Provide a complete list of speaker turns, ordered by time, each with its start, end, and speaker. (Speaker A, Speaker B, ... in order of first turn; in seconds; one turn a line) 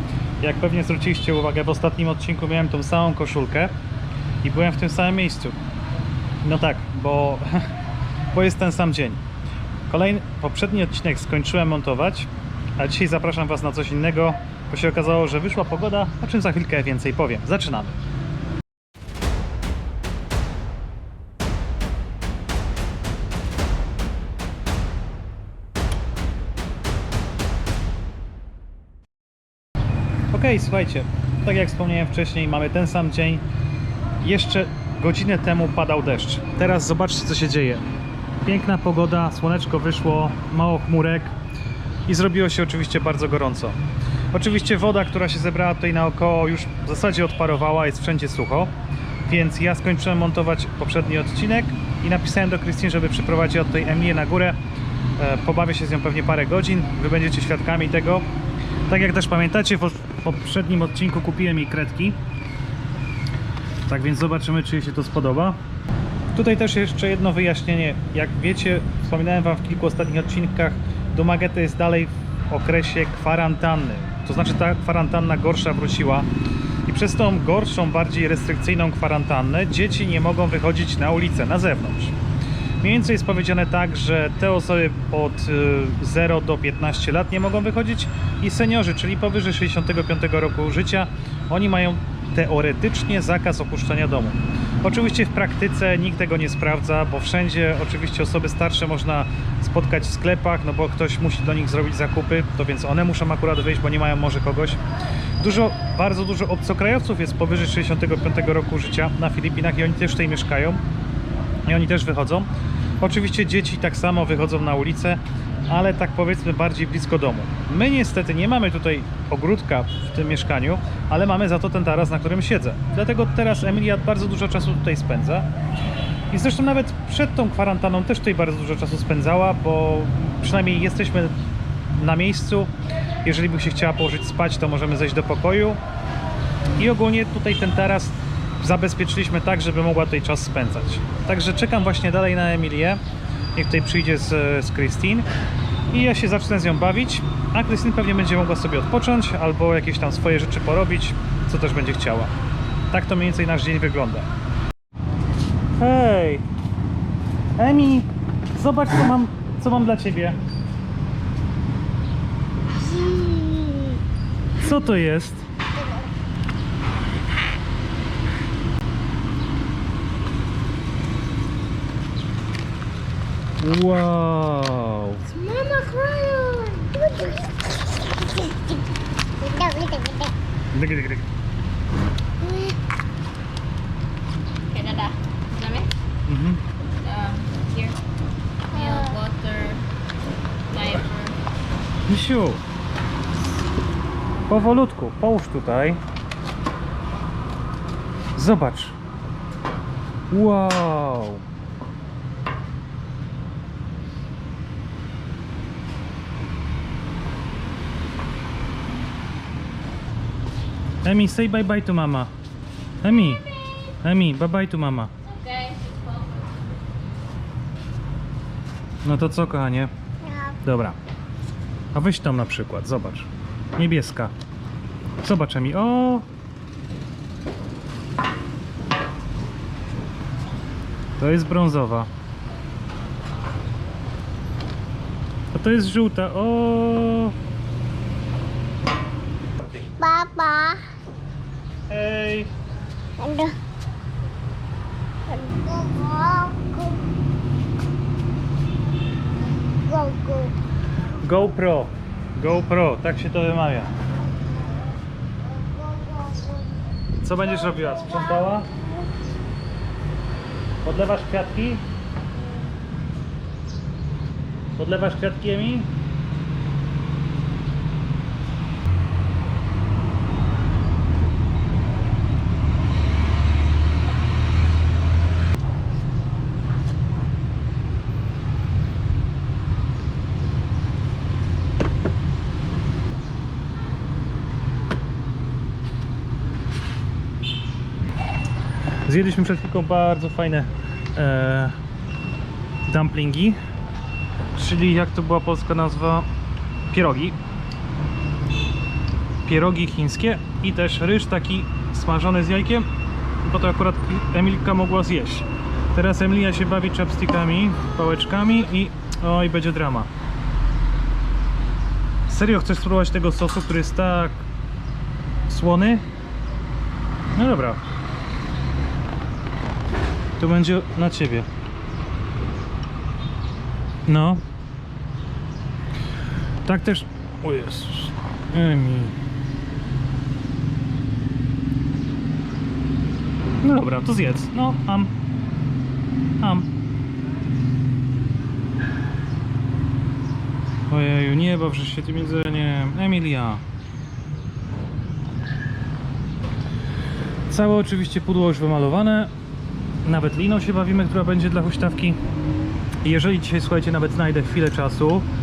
Speaker A: 0.4-3.7
Speaker A: 4.4-5.6
Speaker A: 6.4-7.7
Speaker A: 8.3-9.2
Speaker A: 9.9-18.0
Speaker A: 30.3-33.4
Speaker A: 34.2-37.8
Speaker A: 38.4-41.4
Speaker A: 42.1-43.8
Speaker A: 44.3-48.7
Speaker A: 49.3-54.6
Speaker A: 55.2-58.3
Speaker A: 58.9-62.2
Speaker A: 63.9-65.6
Speaker A: 66.3-76.3
Speaker A: 76.9-82.2
Speaker A: 82.8-104.8
Speaker A: 105.4-110.8
Speaker A: 111.7-125.5
Speaker A: 126.3-131.4
Speaker A: 131.9-132.7
Speaker A: 133.2-135.8
Speaker A: 136.8-143.0
Speaker A: 143.6-145.3
Speaker A: 145.9-152.3
Speaker A: 152.9-154.3
Speaker A: 155.8-156.5
Speaker A: 157.6-160.4
Speaker A: 162.9-164.0
Speaker A: 164.6-165.5
Speaker A: 173.6-175.4
Speaker B: 175.4-178.8
Speaker B: 179.4-180.3
Speaker A: 180.7-181.3
Speaker B: 182.4-182.8
Speaker C: 184.8-185.9
Speaker A: 186.3-186.6
Speaker C: 187.0-188.0
Speaker B: 188.7-189.3
Speaker C: 188.8-189.8
Speaker C: 190.7-191.4
Speaker A: 192.1-192.6
Speaker A: 194.5-196.0
Speaker A: 198.3-199.0
Speaker A: 200.3-201.4
Speaker A: 211.0-212.3
Speaker A: 213.0-213.4
Speaker A: 214.0-215.1
Speaker C: 215.4-216.5
Speaker A: 219.0-221.0
Speaker A: 221.9-224.3
Speaker A: 225.2-226.3
Speaker A: 231.2-232.1
Speaker A: 235.5-237.4
Speaker B: 240.0-240.9
Speaker A: 241.9-242.5
Speaker B: 243.2-243.6
Speaker B: 245.3-247.1
Speaker B: 249.8-250.6
Speaker A: 251.2-253.9
Speaker B: 255.7-256.6
Speaker A: 257.2-258.8
Speaker A: 260.8-261.9
Speaker A: 264.8-265.9
Speaker A: 289.0-291.8
Speaker A: 292.9-293.6
Speaker A: 294.5-296.3
Speaker A: 296.9-297.4
Speaker A: 299.4-302.9
Speaker A: 303.4-310.1
Speaker A: 312.3-314.5
Speaker A: 315.5-316.1
Speaker A: 317.4-317.8
Speaker A: 320.4-321.5
Speaker A: 324.1-324.4
Speaker A: 326.6-329.2
Speaker A: 333.6-335.1
Speaker A: 336.4-336.7
Speaker A: 340.9-343.6
Speaker A: 347.5-349.3
Speaker A: 350.0-352.2
Speaker A: 353.0-355.3